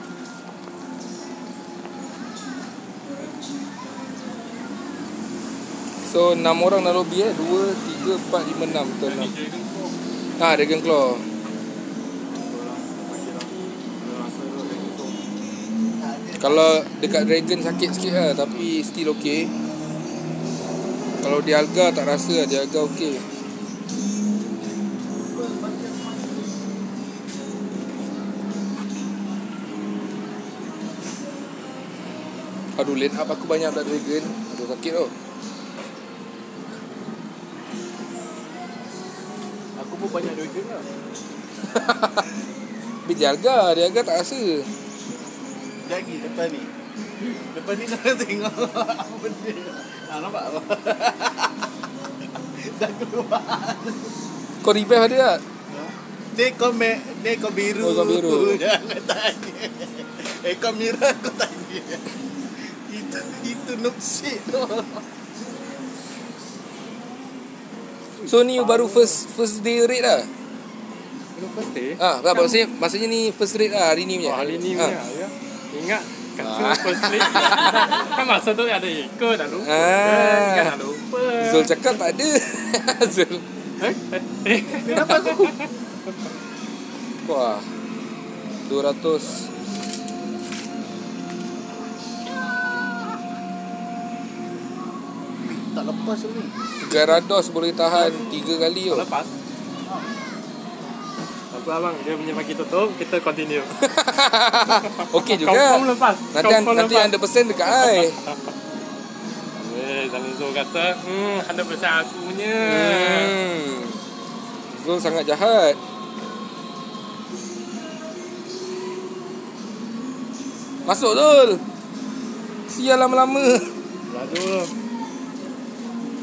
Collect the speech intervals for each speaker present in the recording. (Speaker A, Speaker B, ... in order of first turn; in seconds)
Speaker A: 6.0-9.3, 10.4-11.3, 16.4-19.6, 21.2-23.2, 32.8-35.1, 41.7-42.3, 43.0-44.7, 54.6-55.4, 57.8-58.6, 68.3-70.3, 72.0-75.0, 76.4-77.9, 79.6-80.8, 81.4-83.5, 87.2-87.7, 88.7-89.5, 96.8-99.1, 103.8-108.2, 112.6-114.0, 114.7-115.8, 120.8-121.6, 122.7-123.8
Speaker B: 9.1-10.0, 12.3-15.2, 68.2-69.2, 71.3-72.7, 74.2-81.9, 83.8-85.7, 97.8-99.3, 101.5-103.7, 104.7-107.1, 107.7-108.3, 109.6-113.3
Speaker C: 16.0-16.7, 25.3-26.4, 39.8-40.9, 45.8-46.7, 47.2-51.7, 52.6-54.1, 55.7-65.1, 84.7-85.5, 95.4-96.5, 99.8-100.1, 124.1-124.7